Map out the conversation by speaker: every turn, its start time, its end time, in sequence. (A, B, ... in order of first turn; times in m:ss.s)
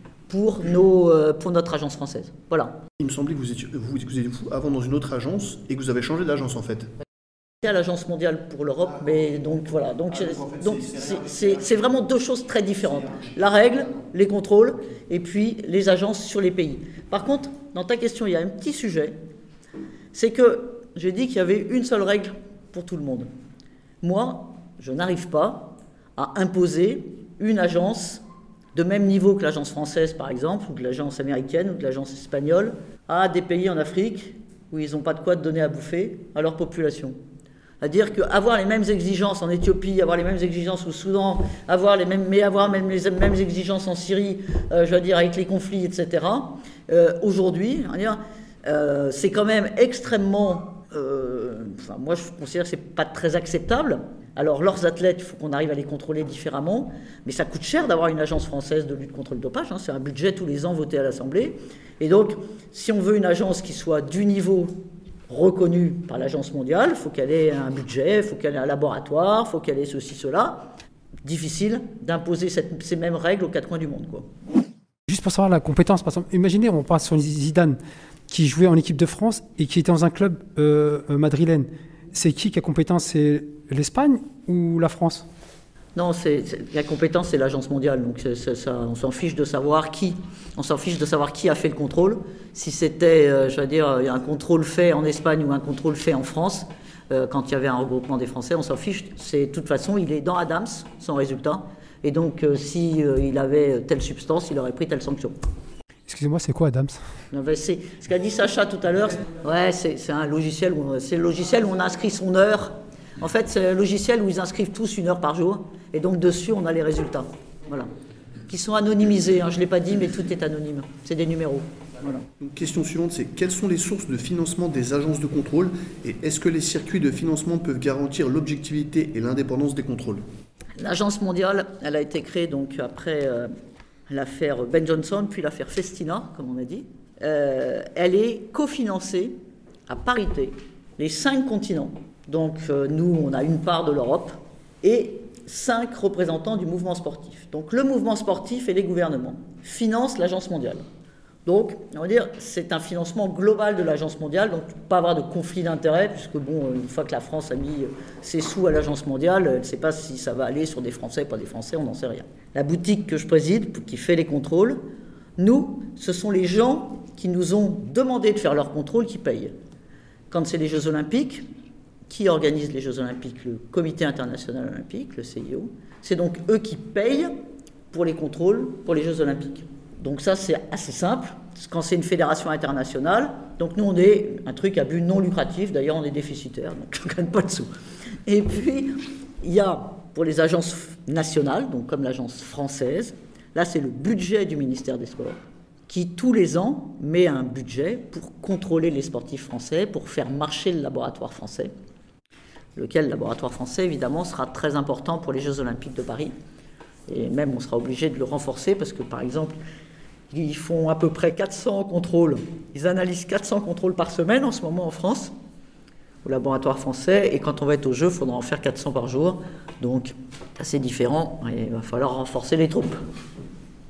0:00.3-0:02.8 A
0:03.0-0:06.9 B
0:07.6-0:19.2 A
0:20.1-0:23.3 A
0:24.0-0:28.2 A
0:28.8-0:37.2 A
0:37.8-1:04.8 A
1:05.3-1:14.3 A
1:15.1-1:25.3 C
1:26.0-1:45.4 A
1:46.1-1:47.1 C
1:47.3-1:57.9 A
1:58.5-2:02.3 A
2:02.4-2:10.2 B
2:10.8-2:13.5 A
2:14.1-2:30.8 A
2:31.5-2:44.8 A
2:45.4-2:49.5 A
2:50.3-2:51.5 A
2:52.1-2:57.3 A
2:57.9-3:07.7 A
3:08.3-3:15.4 A
3:15.9-3:21.7 A
3:22.8-3:26.3 A
3:27.1-3:29.6 A
3:30.3-3:35.3 A
3:36.2-3:43.0 A